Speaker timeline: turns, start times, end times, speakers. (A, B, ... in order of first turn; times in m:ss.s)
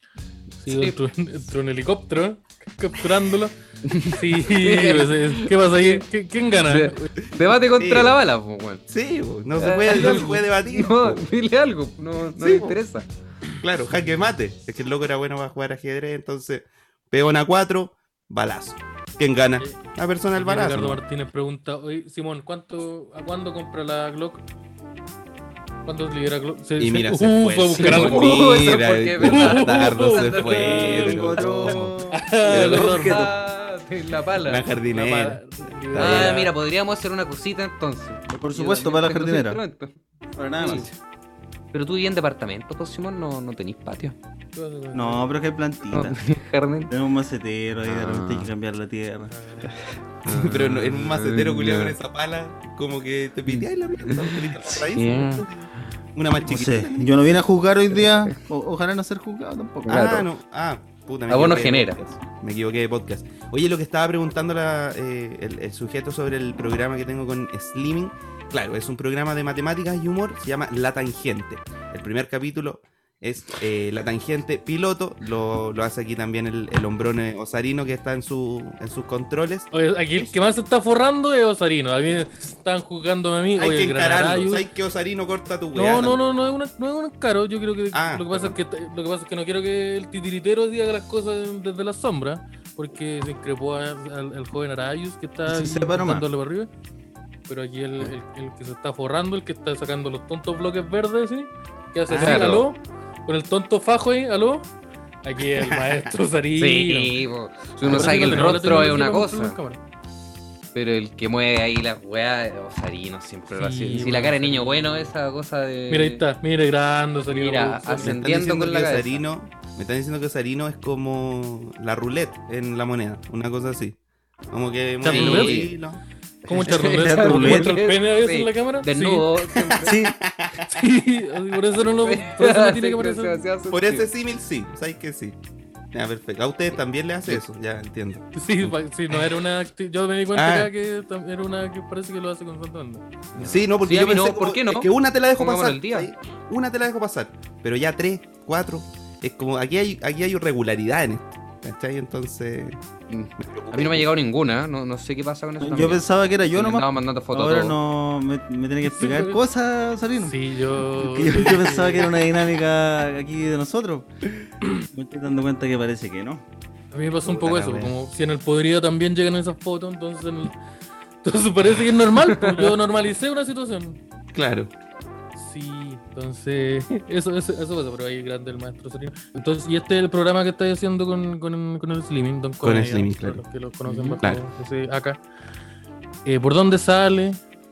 0:00.6-0:03.6 A
0:00.7-0:01.0 B
0:03.8-0:06.0 B
0:04.1-0:07.1 A
0:06.7-0:08.8 B
0:07.8-0:08.2 C
0:08.9-0:11.2 C
0:09.6-0:13.1 B
0:09.9-0:10.4 A
0:12.3-0:12.8 C
0:13.6-0:21.0 C
0:20.4-0:24.4 A
0:25.9-0:28.4 A
0:26.8-0:32.0 C
0:27.8-0:31.8 B
0:29.2-0:31.1 A
0:30.6-0:32.3 D
0:32.1-0:33.3 A
0:32.5-0:33.3 C
0:32.5-0:34.7 B
0:34.4-0:35.4 C
0:34.9-0:36.5 A
0:35.9-0:36.4 C
0:36.0-0:39.9 B
0:38.4-0:39.6 D
0:40.4-0:40.9 D
0:40.6-0:40.9 B
0:41.7-0:44.2 B
0:44.6-0:45.3 A
0:44.9-0:46.2 D
0:45.9-0:46.9 B
0:46.9-0:49.3 D
0:47.8-0:48.5 B
0:49.3-0:49.8 A
0:49.7-0:52.0 B
0:50.3-0:57.1 C
0:53.5-0:55.5 B
0:56.4-1:00.1 D
0:59.9-1:00.3 B
0:59.9-1:20.3 C
1:01.3-1:02.0 B
1:19.7-1:24.6 A
1:23.6-1:26.2 C
1:25.7-1:36.7 A
1:27.9-1:28.6 C
1:35.5-1:36.3 D
1:37.5-1:44.7 A
1:42.1-1:42.6 B
1:42.1-1:42.6 C
1:45.2-1:47.1 A
1:45.6-1:46.0 C
1:46.6-1:49.6 B
1:47.8-1:49.8 A
1:47.9-1:48.5 C
1:50.7-1:56.2 B
1:53.5-1:55.1 A
1:55.9-1:58.2 A
1:57.3-1:59.2 B
1:58.0-2:04.0 C
2:04.5-2:06.0 C
2:05.0-2:05.7 B
2:05.1-2:05.6 A
2:06.5-2:09.3 A
2:06.5-2:07.8 D
2:06.6-2:10.0 B
2:09.6-2:10.8 C
2:09.8-2:10.2 D
2:10.7-2:13.4 A
2:11.8-2:14.1 B
2:13.7-2:15.4 C
2:15.9-2:18.7 C
2:18.3-2:23.0 A
2:20.3-2:20.7 C
2:23.3-2:26.1 B
2:23.4-2:32.8 C
2:33.1-2:37.8 B
2:33.4-2:34.1 C
2:35.6-2:44.1 D
2:38.9-2:39.4 A
2:40.2-2:42.1 A
2:44.9-2:46.4 D
2:46.9-2:50.6 A
2:47.2-2:47.9 C
2:51.2-2:54.0 A
2:52.2-2:52.7 B
2:54.3-2:54.7 C
2:55.4-3:05.2 A
3:02.6-3:03.4 C
3:03.9-3:04.2 B
3:06.3-3:07.4 A